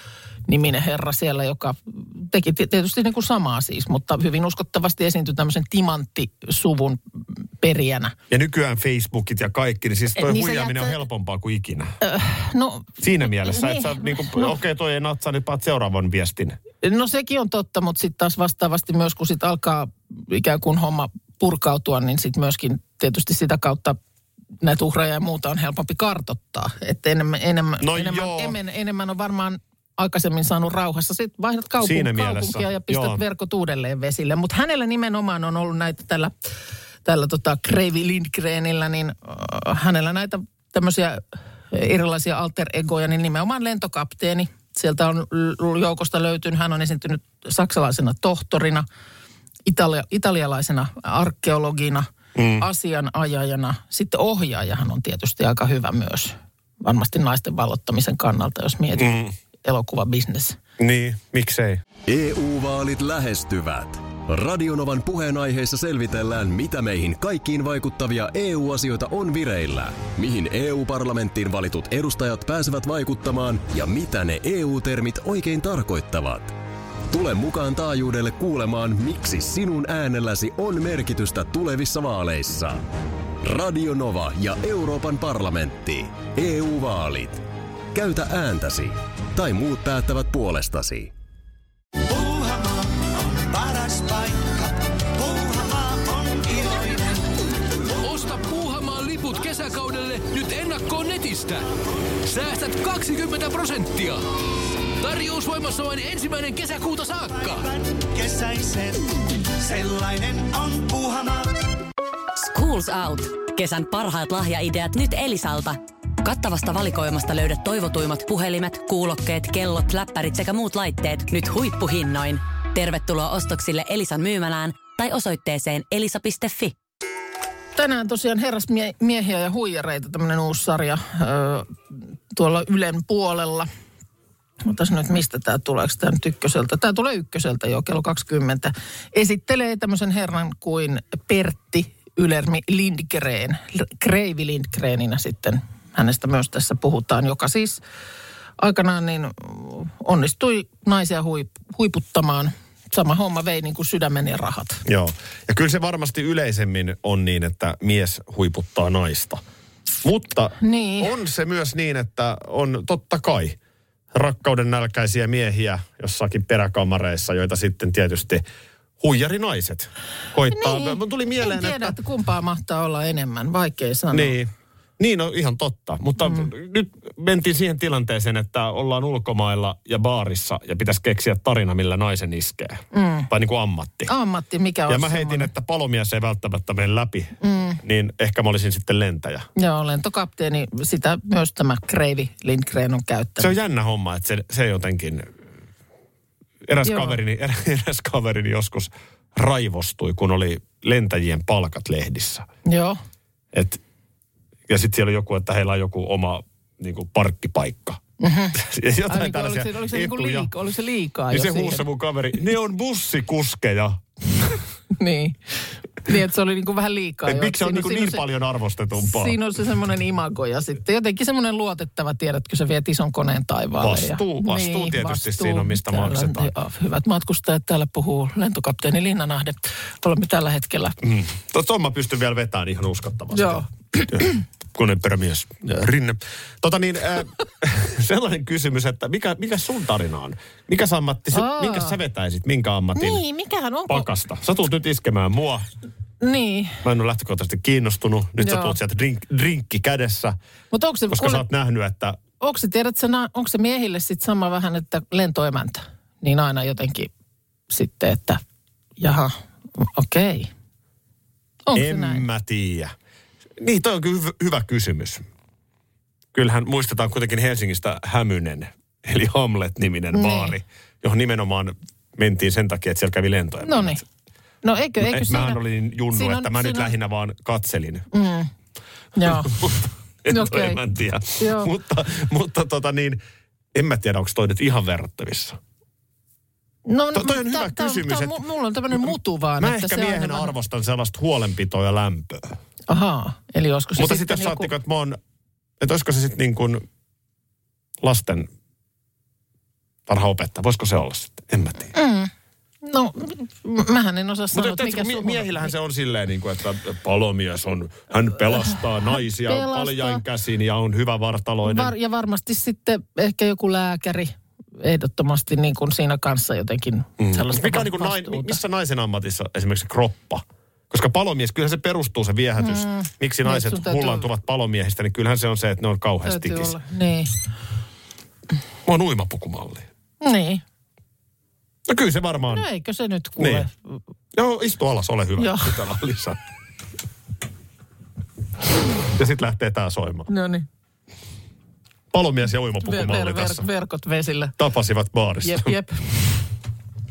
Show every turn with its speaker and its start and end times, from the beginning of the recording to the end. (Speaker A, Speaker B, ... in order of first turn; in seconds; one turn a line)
Speaker A: 0.5-7.0
Speaker A: 7.6-8.1
Speaker B: 8.3-11.9
Speaker A: 10.2-11.0
Speaker A: 12.0-14.5
Speaker B: 13.0-16.6
Speaker A: 16.8-24.0
Speaker A: 24.6-36.4
Speaker B: 27.8-28.6
Speaker B: 31.8-33.2
Speaker A: 37.0-48.9
Speaker A: 49.6-59.1
Speaker B: 52.4-52.7
Speaker B: 59.0-59.4
Speaker A: 59.6-60.6
Speaker B: 60.8-61.8
Speaker C: 62.1-76.5
Speaker C: 77.1-82.8
Speaker C: 83.4-91.1
Speaker D: 92.1-97.3
Speaker E: 98.0-101.7
Speaker E: 102.2-104.2
Speaker E: 105.0-107.7
Speaker D: 107.4-111.5
Speaker F: 112.4-126.8
Speaker A: 127.8-131.8
Speaker A: 132.3-133.7
Speaker A: 134.6-147.8
Speaker A: 148.6-154.8
Speaker B: 154.9-159.4
Speaker B: 160.0-163.6
Speaker A: 160.6-161.1
Speaker B: 164.1-168.4
Speaker B: 169.0-172.0
Speaker A: 170.5-174.3
Speaker B: 174.1-184.1
Speaker A: 182.9-183.3
Speaker A: 184.1-185.5
Speaker B: 184.9-189.5
Speaker A: 187.4-187.8
Speaker A: 189.6-193.5
Speaker B: 193.4-195.3
Speaker B: 196.7-202.5
Speaker A: 196.9-197.2
Speaker A: 202.7-203.0
Speaker B: 203.5-203.8
Speaker B: 204.7-208.0
Speaker A: 208.2-211.8
Speaker B: 208.5-210.5
Speaker B: 211.3-214.6
Speaker A: 214.9-218.2
Speaker B: 217.2-219.4
Speaker A: 219.0-231.0
Speaker B: 223.8-226.5
Speaker B: 231.0-243.2
Speaker A: 233.3-234.3
Speaker A: 241.3-242.0
Speaker A: 242.9-244.1
Speaker B: 243.9-245.6
Speaker A: 246.2-246.8
Speaker B: 246.8-250.4
Speaker A: 248.4-248.8
Speaker A: 250.7-251.4
Speaker B: 251.1-252.2
Speaker A: 252.4-257.1
Speaker A: 257.7-258.4
Speaker A: 259.0-260.5
Speaker A: 261.6-262.2
Speaker B: 261.7-262.9
Speaker B: 263.6-265.2
Speaker B: 266.3-274.0
Speaker A: 270.1-270.5
Speaker A: 273.6-274.0
Speaker A: 274.6-275.6
Speaker B: 275.0-278.1
Speaker A: 276.1-276.9
Speaker A: 278.1-278.5
Speaker A: 279.1-279.7
Speaker B: 279.2-283.2
Speaker A: 280.3-280.8
Speaker A: 281.4-281.7
Speaker B: 283.7-285.6
Speaker A: 286.9-290.5
Speaker B: 287.1-288.4
Speaker B: 288.9-292.6
Speaker A: 292.9-294.7
Speaker B: 294.0-295.2
Speaker B: 295.8-296.8
Speaker B: 298.0-298.5
Speaker B: 300.1-301.9
Speaker A: 301.9-302.3
Speaker A: 302.8-305.7
Speaker B: 304.5-311.9
Speaker A: 309.4-310.2
Speaker A: 311.6-318.6
Speaker B: 317.2-326.8
Speaker A: 322.6-324.3
Speaker A: 326.2-327.3
Speaker B: 328.8-329.9
Speaker A: 330.2-330.6
Speaker B: 331.9-332.7
Speaker A: 332.5-334.0
Speaker B: 333.4-333.7
Speaker B: 334.3-336.4
Speaker A: 335.4-335.7
Speaker B: 339.0-340.3
Speaker A: 340.3-340.7
Speaker B: 342.1-343.7
Speaker A: 342.8-344.5
Speaker B: 344.6-345.8
Speaker A: 345.4-346.1